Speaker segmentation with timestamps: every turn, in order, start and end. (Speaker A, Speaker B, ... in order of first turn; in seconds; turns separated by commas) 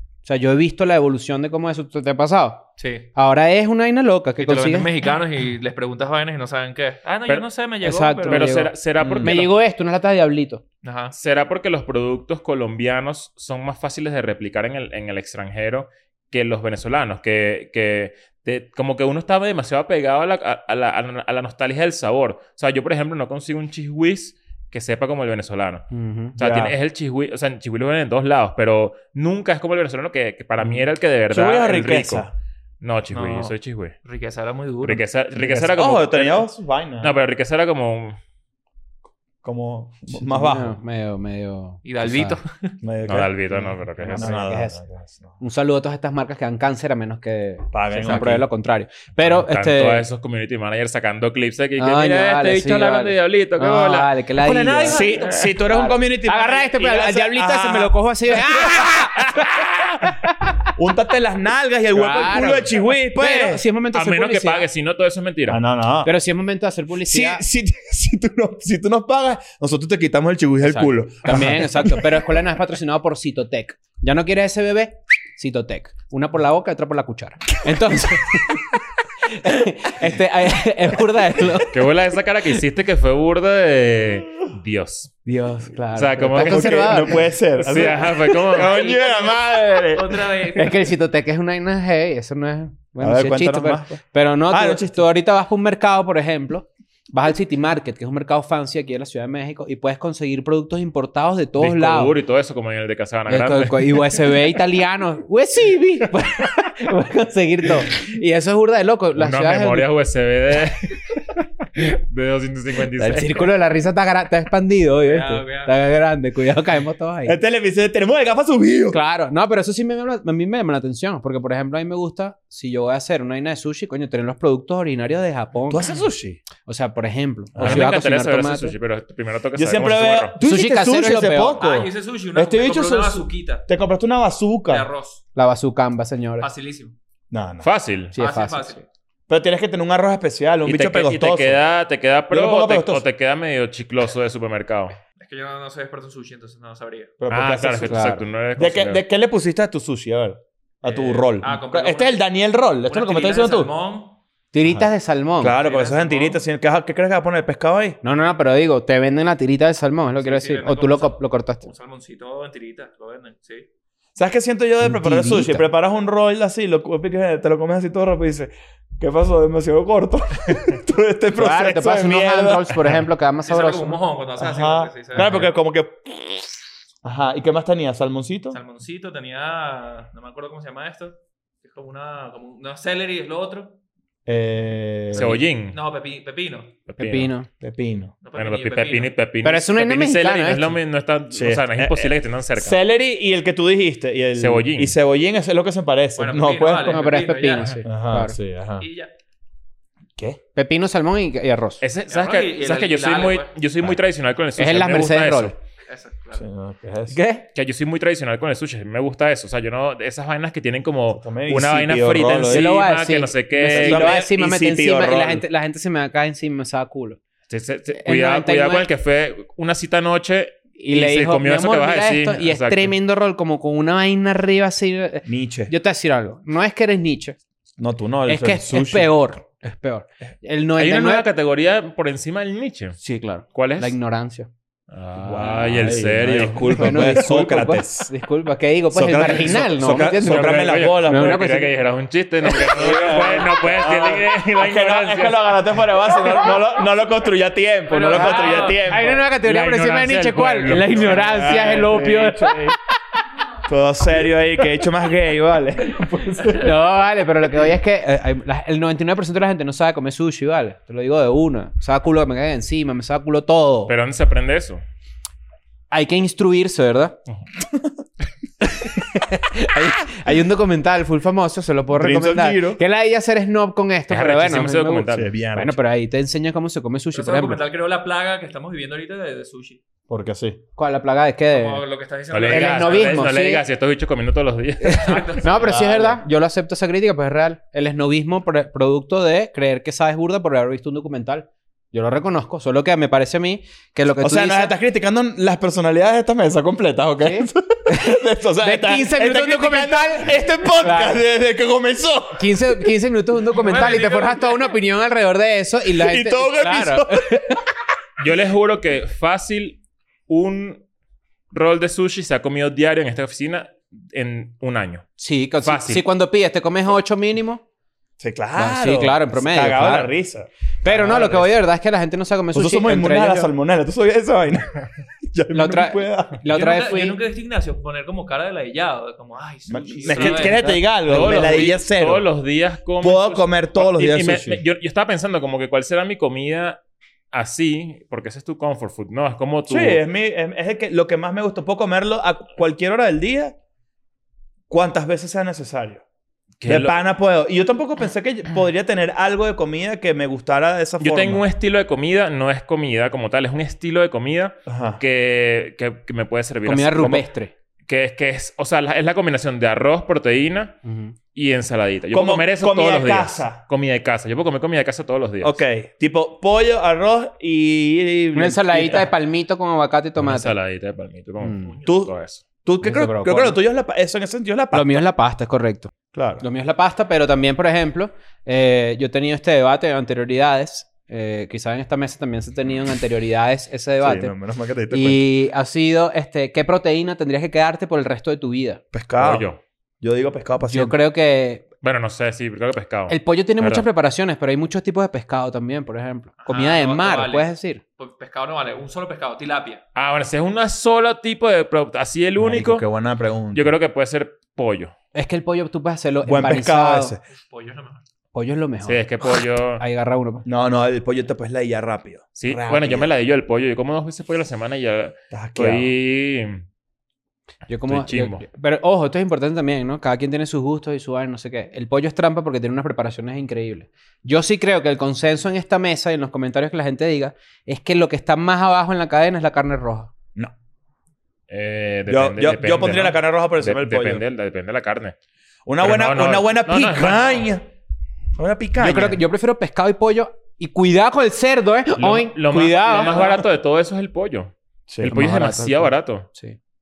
Speaker A: 0.2-4.9, Speaker B: 2.8-3.1, Speaker B: 4.4-8.6, Speaker A: 7.8-10.6, Speaker C: 8.2-9.5, Speaker D: 9.0-9.4, Speaker B: 10.8-11.1, Speaker C: 11.1-32.3, Speaker A: 25.9-26.4, Speaker D: 26.4-26.8, Speaker D: 31.3-32.3, Speaker C: 32.8-33.9, Speaker B: 33.1-35.0, Speaker C: 34.8-36.5, Speaker D: 35.3-37.1, Speaker C: 37.0-38.2, Speaker D: 39.4-40.7, Speaker A: 40.2-42.4, Speaker B: 41.8-42.8, Speaker D: 42.8-43.3, Speaker C: 43.0-44.3, Speaker A: 43.5-44.8, Speaker D: 44.1-45.3, Speaker A: 45.4-50.0, Speaker D: 47.7-48.5, Speaker C: 49.2-54.1, Speaker A: 51.8-60.7, Speaker D: 54.4-59.1, Speaker C: 54.9-55.4, Speaker D: 60.8-63.6, Speaker A: 61.9-64.7, Speaker C: 63.9-65.6, Speaker D: 65.5-66.1, Speaker A: 66.0-67.4, Speaker D: 67.0-72.3, Speaker A: 70.6-78.6, Speaker D: 77.7-78.6, Speaker A: 79.3-81.8, Speaker C: 81.7-85.1, Speaker A: 85.2-87.3, Speaker C: 85.9-89.0, Speaker D: 86.4-90.3, Speaker B: 88.5-90.9, Speaker A: 90.5-102.2, Speaker D: 93.0-95.0, Speaker C: 101.6-104.3, Speaker A: 103.3-109.9, Speaker C: 109.2-113.5, Speaker A: 113.0-117.4, Speaker B: 115.0-115.7, Speaker D: 117.2-119.0, Speaker A: 118.9-125.9, Speaker D: 125.7-126.4, Speaker A: 126.6-128.8, Speaker D: 127.5-127.9, Speaker C: 127.6-130.3, Speaker D: 129.5-134.9, Speaker A: 130.4-131.6, Speaker B: 131.6-133.7, Speaker B: 134.7-135.2, Speaker A: 135.3-136.5, Speaker B: 136.4-136.9, Speaker D: 137.3-137.7, Speaker C: 137.6-138.1, Speaker A: 138.1-138.8, Speaker B: 138.2-138.8, Speaker D: 139.3-141.6, Speaker C: 140.7-144.9, Speaker D: 142.3-143.0, Speaker B: 145.2-147.1, Speaker D: 147.2-153.7, Speaker C: 147.3-149.0, Speaker A: 147.9-148.2, Speaker B: 150.8-152.2, Speaker B: 152.8-154.2, Speaker A: 154.5-155.6, Speaker D: 155.4-158.0, Speaker B: 155.6-156.4, Speaker A: 158.0-161.7, Speaker B: 160.2-163.7, Speaker D: 164.2-173.0, Speaker A: 164.8-165.7, Speaker A: 171.3-174.0, Speaker B: 173.4-175.4, Speaker D: 174.4-176.5, Speaker C: 175.2-175.4, Speaker D: 177.0-178.6, Speaker B: 178.5-183.8, Speaker D: 184.2-185.3, Speaker B: 185.1-186.8, Speaker C: 185.1-185.8, Speaker C: 186.9-187.3, Speaker A: 187.0-187.5, Speaker D: 187.6-188.1, Speaker B: 188.2-189.1, Speaker C: 188.3-192.8, Speaker A: 189.4-190.8, Speaker D: 191.3-197.0, Speaker C: 194.4-194.9, Speaker B: 196.2-197.8, Speaker A: 196.8-198.3, Speaker D: 197.8-198.8, Speaker B: 198.8-199.1, Speaker A: 200.5-201.8, Speaker C: 201.8-205.6, Speaker B: 202.1-203.5, Speaker A: 204.6-205.5, Speaker B: 205.9-206.4, Speaker D: 206.3-207.2, Speaker A: 207.1-207.4, Speaker C: 207.5-214.2, Speaker D: 211.1-212.7, Speaker A: 212.5-217.2, Speaker D: 213.7-215.4, Speaker C: 217.5-222.9, Speaker A: 218.0-218.9, Speaker A: 220.8-227.4, Speaker D: 225.2-225.7, Speaker D: 227.8-229.1, Speaker A: 228.3-231.3, Speaker C: 230.8-233.0, Speaker A: 233.0-234.5, Speaker C: 233.5-233.9, Speaker C: 234.9-237.1, Speaker D: 235.2-238.1, Speaker A: 236.7-241.7, Speaker D: 238.9-241.7, Speaker C: 239.2-239.6, Speaker C: 240.2-245.4, Speaker A: 242.5-243.5, Speaker D: 242.5-249.2, Speaker B: 247.9-248.9, Speaker A: 248.1-252.7, Speaker C: 248.9-252.1, Speaker D: 250.9-252.8, Speaker D: 253.7-256.8, Speaker A: 256.5-263.9, Speaker C: 263.9-264.8, Speaker A: 265.9-267.2, Speaker A: 268.6-277.6, Speaker D: 271.9-272.8, Speaker C: 274.1-275.3, Speaker D: 275.1-275.8, Speaker B: 277.1-279.8, Speaker D: 280.1-280.6, Speaker A: 280.8-281.8, Speaker B: 281.5-283.3, Speaker C: 282.3-285.4, Speaker A: 282.5-283.6, Speaker A: 284.8-294.7, Speaker B: 284.9-285.9, Speaker D: 285.6-286.2, Speaker D: 294.2-302.8, Speaker A: 297.2-301.2, Speaker A: 302.4-307.6, Speaker B: 303.5-304.7, Speaker D: 305.9-307.6, Speaker C: 308.2-310.8, Speaker C: 311.5-315.1, Speaker A: 315.2-317.6, Speaker C: 315.6-316.0, Speaker D: 318.2-321.5, Speaker A: 318.6-320.1, Speaker A: 320.8-323.5, Speaker D: 322.5-326.4, Speaker A: 325.5-327.2, Speaker B: 326.5-330.7, Speaker D: 329.7-332.2, Speaker C: 330.1-336.8, Speaker D: 333.0-334.6, Speaker C: 337.3-340.0, Speaker D: 339.7-343.6, Speaker D: 344.7-346.0, Speaker C: 346.6-347.0, Speaker D: 346.6-351.4, Speaker C: 351.0-357.3, Speaker D: 354.6-355.0, Speaker A: 356.6-357.5, Speaker C: 357.9-360.8, Speaker A: 360.8-361.1, Speaker C: 361.3-365.6, Speaker D: 362.1-363.6, Speaker D: 365.4-369.1, Speaker A: 368.3-370.5, Speaker C: 370.2-372.4, Speaker A: 371.4-371.8, Speaker D: 371.8-372.1, Speaker D: 372.6-375.0, Speaker A: 372.8-373.6, Speaker A: 374.7-384.3, Speaker D: 376.1-376.4, Speaker D: 384.0-385.2, Speaker A: 384.9-388.8, Speaker D: 388.9-389.5, Speaker C: 389.2-389.6, Speaker D: 390.0-390.9, Speaker A: 390.7-391.6, Speaker C: 391.8-393.9, Speaker A: 393.1-397.8, Speaker B: 396.4-399.8, Speaker C: 399.9-402.9, Speaker D: 402.4-403.7, Speaker C: 403.5-404.9, Speaker A: 405.1-407.1, Speaker D: 406.2-407.2, Speaker B: 407.3-408.0, Speaker A: 408.3-410.4, Speaker C: 408.8-409.8, Speaker D: 410.4-413.1, Speaker C: 412.4-416.6, Speaker D: 415.3-415.9, Speaker A: 417.7-430.1, Speaker C: 417.9-418.4, Speaker C: 431.5-435.1, Speaker D: 432.1-434.2, Speaker D: 435.6-437.6, Speaker C: 435.8-437.5, Speaker D: 438.4-439.2, Speaker A: 438.8-443.4, Speaker C: 442.0-446.3, Speaker D: 444.9-445.1, Speaker A: 445.0-446.6